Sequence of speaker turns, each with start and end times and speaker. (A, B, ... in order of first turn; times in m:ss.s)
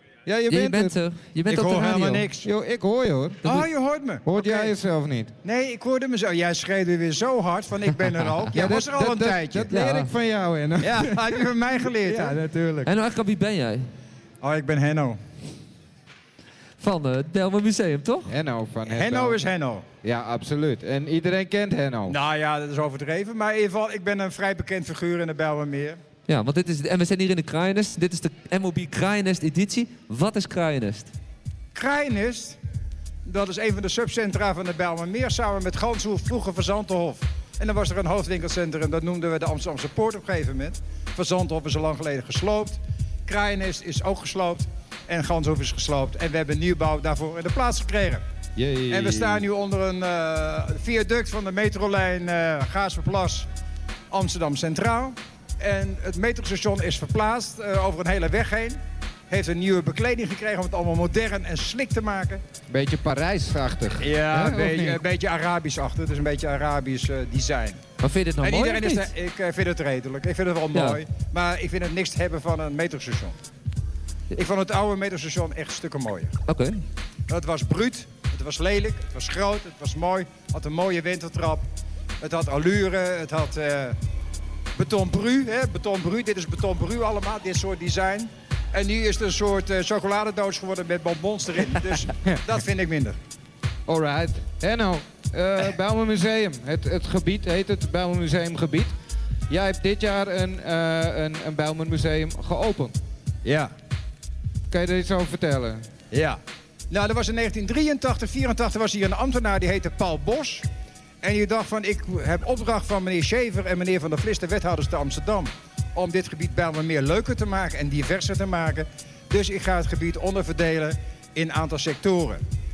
0:00.2-0:01.0 A
0:00.5-0:02.2 B
0:01.5-0:02.5 C
0:02.4-0:03.7 A
0:03.4-0:04.7 C
0:04.2-0:05.3 A
0:05.4-0:09.7 C
0:08.5-0:11.4 A
0:09.7-0:10.1 B
0:10.8-0:12.4 C
0:12.0-0:12.9 A
0:12.8-0:13.8 B
0:14.4-0:15.2 C
0:16.8-0:18.3 B
0:18.3-0:19.4 A
0:18.8-0:19.8 C
0:20.0-0:22.2 A
0:22.1-0:26.0 C
0:26.3-0:31.1 B
0:31.7-0:32.6 C
0:33.2-0:48.2 C
0:48.6-0:49.4 A
0:48.9-0:53.5 C
0:54.1-1:02.4 C
1:02.7-1:05.0 A
1:04.0-1:07.8 C
1:08.0-1:09.1 B
1:08.4-1:13.4 C
1:10.7-1:11.0 B
1:14.3-1:16.3 C
1:16.5-1:16.8 B
1:17.3-1:21.6 C
1:22.2-1:24.0 C
1:24.8-1:33.2 C
1:33.9-1:38.9 A
1:39.5-1:43.0 A
1:43.4-1:43.7 C
1:44.7-1:45.8 A
1:46.1-1:46.4 C
1:46.9-1:50.6 C
1:51.2-2:02.4 C